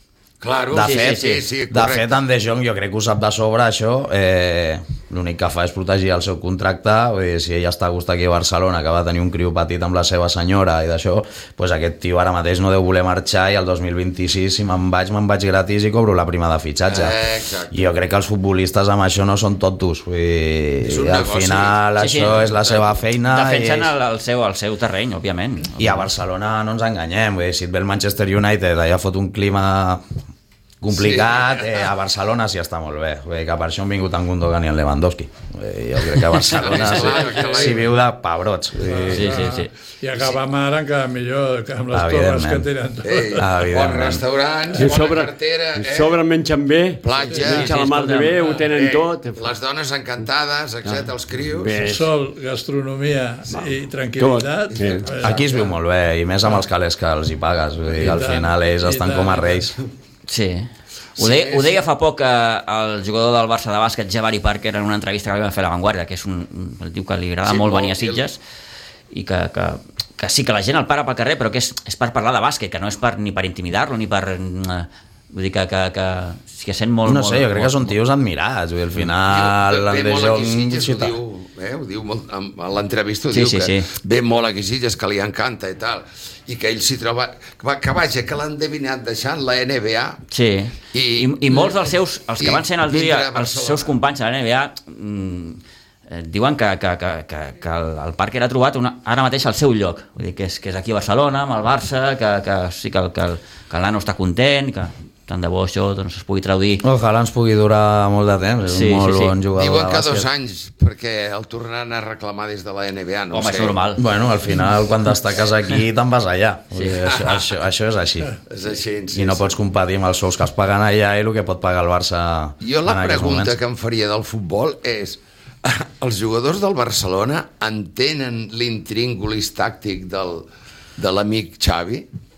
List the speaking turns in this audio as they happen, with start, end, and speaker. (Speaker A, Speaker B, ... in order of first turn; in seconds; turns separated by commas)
Speaker A: 0.4-2.1, Speaker B: 0.7-23.9, Speaker C: 0.8-1.4, Speaker A: 16.9-17.9, Speaker A: 20.8-23.0, Speaker C: 22.0-22.4, Speaker C: 23.3-26.1, Speaker B: 25.8-30.0, Speaker B: 30.8-39.3, Speaker A: 30.9-31.7, Speaker A: 36.5-37.8, Speaker D: 37.4-37.7, Speaker D: 38.8-43.5, Speaker C: 39.1-39.7, Speaker B: 41.9-42.7, Speaker A: 43.0-46.2, Speaker B: 43.3-44.2, Speaker E: 44.7-49.5, Speaker A: 47.0-47.8, Speaker D: 47.3-48.6, Speaker C: 47.5-48.4, Speaker A: 48.6-51.8, Speaker E: 51.6-52.1, Speaker D: 51.8-55.4, Speaker E: 54.2-55.0, Speaker A: 54.7-55.7, Speaker B: 55.2-59.8, Speaker D: 58.0-59.7, Speaker C: 60.3-68.4, Speaker A: 61.2-61.8, Speaker A: 67.4-68.2, Speaker C: 69.1-77.9, Speaker B: 77.0-81.2, Speaker A: 79.3-90.2, Speaker C: 83.3-83.9, Speaker C: 90.3-106.8, Speaker A: 90.9-93.9, Speaker B: 106.8-110.3, Speaker C: 108.7-109.3, Speaker A: 109.5-113.8, Speaker C: 113.3-114.0, Speaker B: 114.0-118.3, Speaker A: 117.0-117.5, Speaker A: 118.5-119.5, Speaker B: 119.1-123.5, Speaker A: 122.6-130.4, Speaker A: 131.0-132.1